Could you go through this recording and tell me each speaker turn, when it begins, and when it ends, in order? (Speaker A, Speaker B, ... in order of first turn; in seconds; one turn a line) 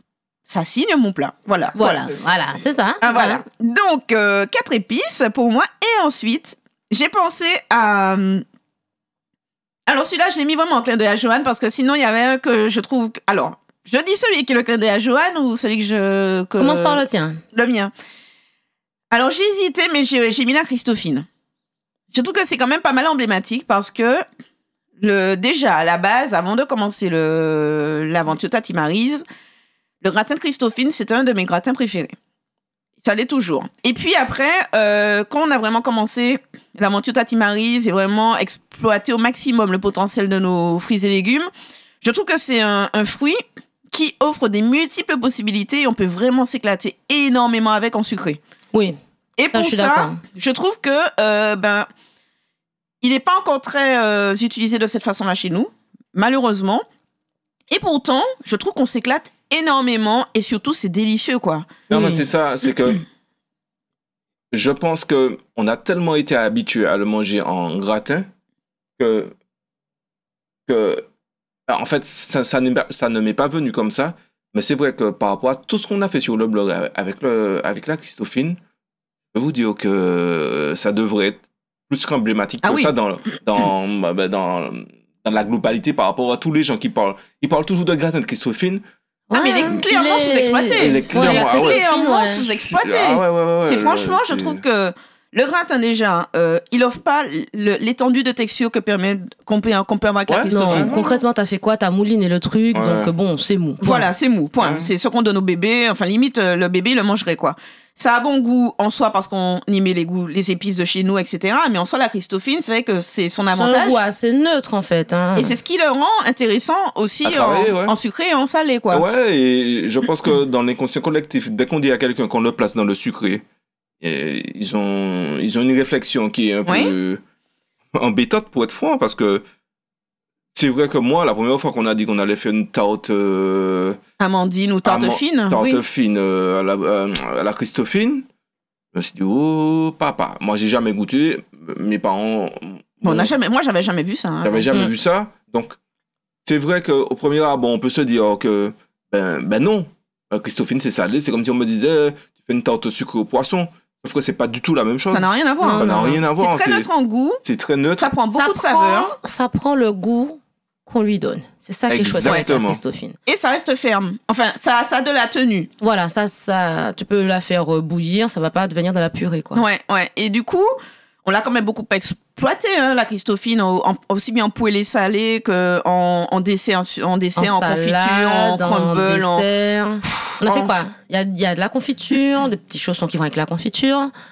Speaker A: 0.5-1.9
Speaker B: 1.8-3.4
Speaker C: 1.8-2.1
Speaker A: 3.0-8.4
Speaker A: 9.9-17.0
Speaker B: 16.6-17.4
Speaker A: 17.5-17.9
Speaker A: 19.1-21.3
Speaker A: 22.1-24.2
Speaker A: 25.0-29.2
Speaker A: 30.0-32.1
Speaker A: 33.0-41.5
Speaker A: 42.0-43.4
Speaker A: 43.9-48.4
Speaker A: 49.4-51.9
Speaker B: 49.5-50.2
Speaker A: 53.0-56.8
Speaker A: 57.7-61.8
Speaker B: 61.9-62.2
Speaker C: 61.9-63.0
Speaker C: 64.5-68.2
Speaker C: 69.0-69.3
Speaker C: 70.7-71.0
Speaker C: 71.7-78.6
Speaker C: 79.3-88.8
Speaker A: 82.6-82.9
Speaker B: 89.3-92.5
Speaker A: 89.3-101.2
Speaker C: 90.8-94.6
Speaker C: 100.3-101.0
Speaker B: 100.5-104.1
Speaker C: 102.7-103.1
Speaker A: 103.8-114.0
Speaker C: 104.6-104.9
Speaker B: 113.5-115.6
Speaker A: 115.3-119.0
Speaker C: 117.2-117.9
Speaker C: 118.9-123.4
Speaker C: 124.0-127.2
Speaker A: 126.7-126.9
Speaker C: 127.9-129.4
Speaker C: 130.5-134.0
Speaker A: 134.2-135.8
Speaker C: 134.8-138.3
Speaker C: 138.9-143.3
Speaker A: 143.0-144.7
Speaker C: 144.4-145.8
Speaker C: 146.4-156.9
Speaker A: 155.1-157.4
Speaker B: 155.6-156.2
Speaker C: 157.4-158.1
Speaker A: 158.0-159.1
Speaker B: 158.3-163.1
Speaker C: 161.9-162.8
Speaker A: 163.2-165.7
Speaker B: 165.8-169.6
Speaker A: 169.5-170.7
Speaker A: 171.2-179.4
Speaker B: 177.3-184.1
Speaker A: 180.3-180.8